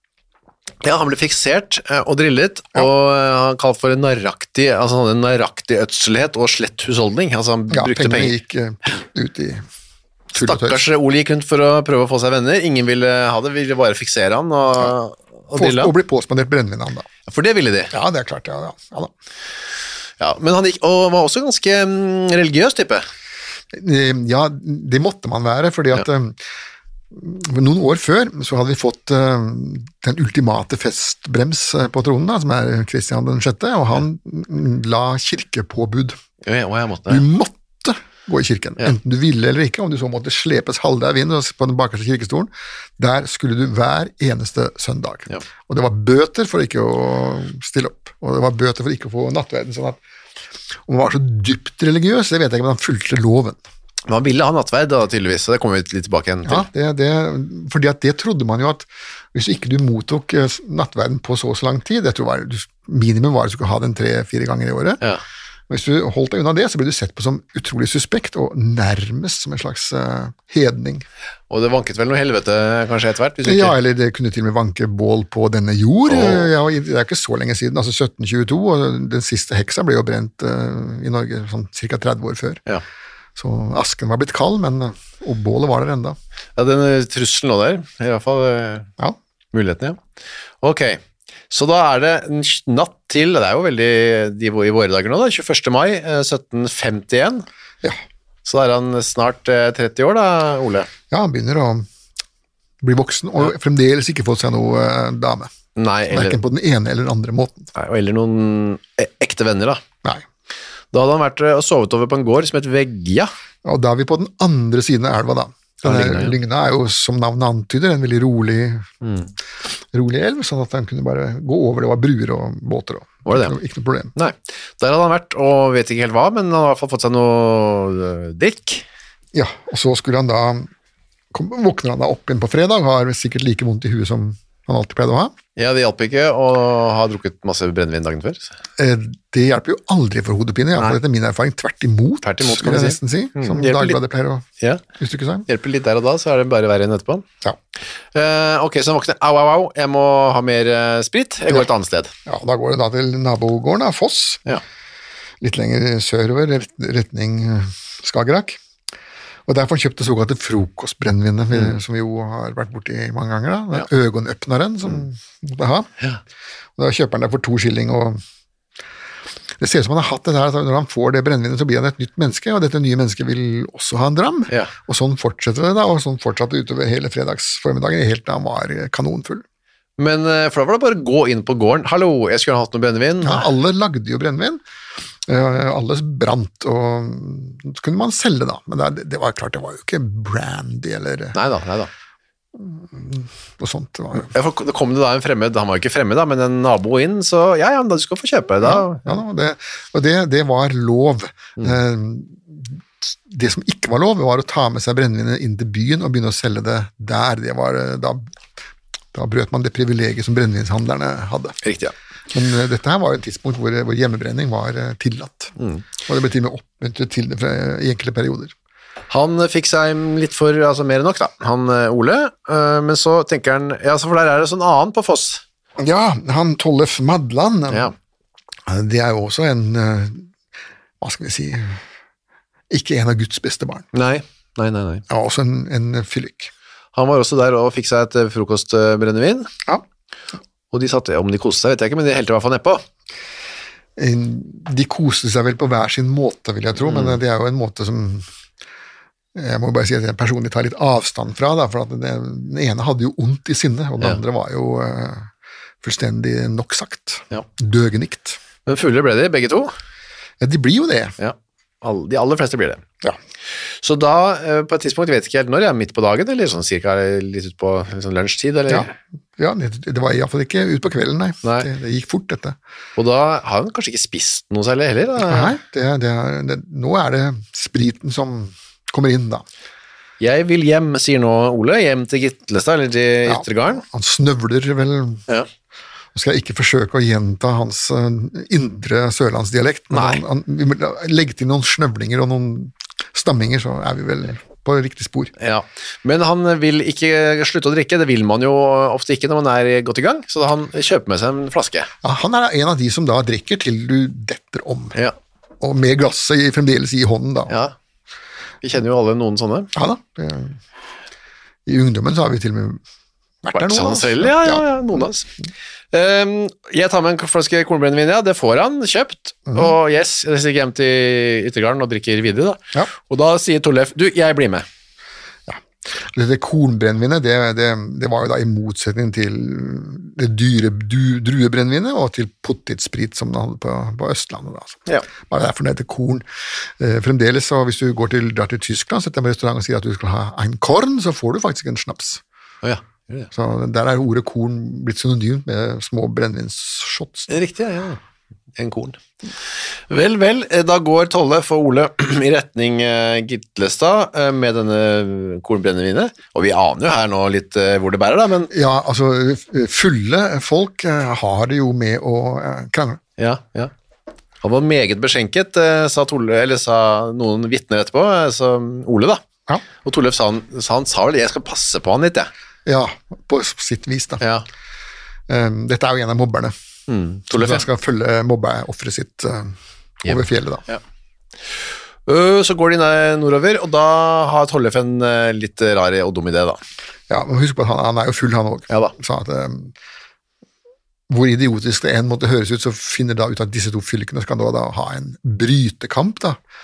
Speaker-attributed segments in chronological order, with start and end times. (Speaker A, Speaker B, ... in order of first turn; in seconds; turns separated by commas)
Speaker A: 0.8-8.3, Speaker B: 7.7-9.6, Speaker B: 10.3-10.9, Speaker A: 10.3-15.9, Speaker B: 15.6-17.1, Speaker A: 17.3-17.9, Speaker B: 17.9-19.1, Speaker A: 20.2-23.1, Speaker B: 23.7-26.4, Speaker B: 27.1-36.2, Speaker A: 36.5-37.2, Speaker B: 37.1-50.0, Speaker B: 50.9-53.6, Speaker A: 54.1-56.7, Speaker B: 56.5-65.0, Speaker B: 65.7-71.0, Speaker A: 71.5-73.8, Speaker B: 73.4-82.6, Speaker A: 76.1-76.5, Speaker B: 83.4-86.2, Speaker A: 86.6-88.9, Speaker A: 89.5-90.0, Speaker A: 90.6-97.5, Speaker A: 98.5-100.9, Speaker B: 101.1-101.9, Speaker B: 102.8-105.5, Speaker A: 105.8-106.4, Speaker B: 106.1-107.7, Speaker A: 107.8-109.8, Speaker A: 110.9-113.3, Speaker B: 113.6-118.9, Speaker A: 115.8-116.4, Speaker A: 119.0-119.3, Speaker B: 119.9-124.1, Speaker A: 123.3-123.6, Speaker A: 124.2-128.8, Speaker B: 129.3-130.7, Speaker B: 131.3-135.3, Speaker A: 135.6-138.5, Speaker B: 138.8-144.5, Speaker A: 142.2-144.0, Speaker B: 145.0-145.5, Speaker A: 145.5-147.2, Speaker A: 148.2-152.1, Speaker B: 152.3-154.4, Speaker B: 155.4-158.6, Speaker B: 159.5-165.9, Speaker B: 166.8-168.2, Speaker B: 169.6-179.4, Speaker A: 180.0-183.5, Speaker B: 183.2-184.6, Speaker B: 185.3-191.4, Speaker A: 191.3-191.9, Speaker B: 192.6-194.3, Speaker A: 194.3-199.2, Speaker B: 198.6-208.3, Speaker B: 209.1-211.6, Speaker A: 211.6-211.9, Speaker B: 212.3-215.5, Speaker A: 215.6-215.9, Speaker B: 216.1-218.5, Speaker A: 219.1-225.4, Speaker B: 225.8-227.9, Speaker B: 228.7-230.3, Speaker B: 231.0-231.8, Speaker B: 232.7-233.8, Speaker A: 233.9-235.0, Speaker B: 235.1-236.5, Speaker A: 236.9-239.5, Speaker A: 240.7-242.8, Speaker B: 244.0-248.3, Speaker A: 246.8-247.2, Speaker B: 249.3-255.3, Speaker B: 255.8-258.4, Speaker A: 258.7-259.7, Speaker B: 260.4-261.1, Speaker A: 261.2-262.8, Speaker A: 263.8-268.9, Speaker B: 268.7-272.6, Speaker A: 271.4-271.7, Speaker A: 273.0-275.6, Speaker B: 275.2-279.4, Speaker A: 280.2-283.8, Speaker B: 283.3-285.2, Speaker B: 286.1-295.3, Speaker A: 289.9-290.2, Speaker A: 295.4-301.9, Speaker B: 302.0-304.9, Speaker B: 305.6-307.6, Speaker A: 307.5-307.8, Speaker A: 308.6-309.7, Speaker B: 309.8-310.6, Speaker B: 311.7-312.8, Speaker B: 313.4-315.0, Speaker A: 313.5-315.3, Speaker A: 315.9-324.7, Speaker B: 319.5-319.8, Speaker B: 325.5-336.2, Speaker B: 336.8-342.2, Speaker A: 342.6-343.3, Speaker B: 343.3-347.3, Speaker A: 347.3-348.0, Speaker A: 348.6-349.0, Speaker A: 349.9-358.5, Speaker B: 358.5-363.0, Speaker A: 363.2-363.7, Speaker A: 364.4-369.2, Speaker A: 369.8-372.3, Speaker B: 372.7-374.2, Speaker A: 374.2-374.5, Speaker B: 375.3-376.5, Speaker A: 376.9-377.7, Speaker B: 377.3-380.6, Speaker A: 380.1-380.8, Speaker A: 382.1-386.6, Speaker B: 387.1-389.8, Speaker B: 391.1-396.4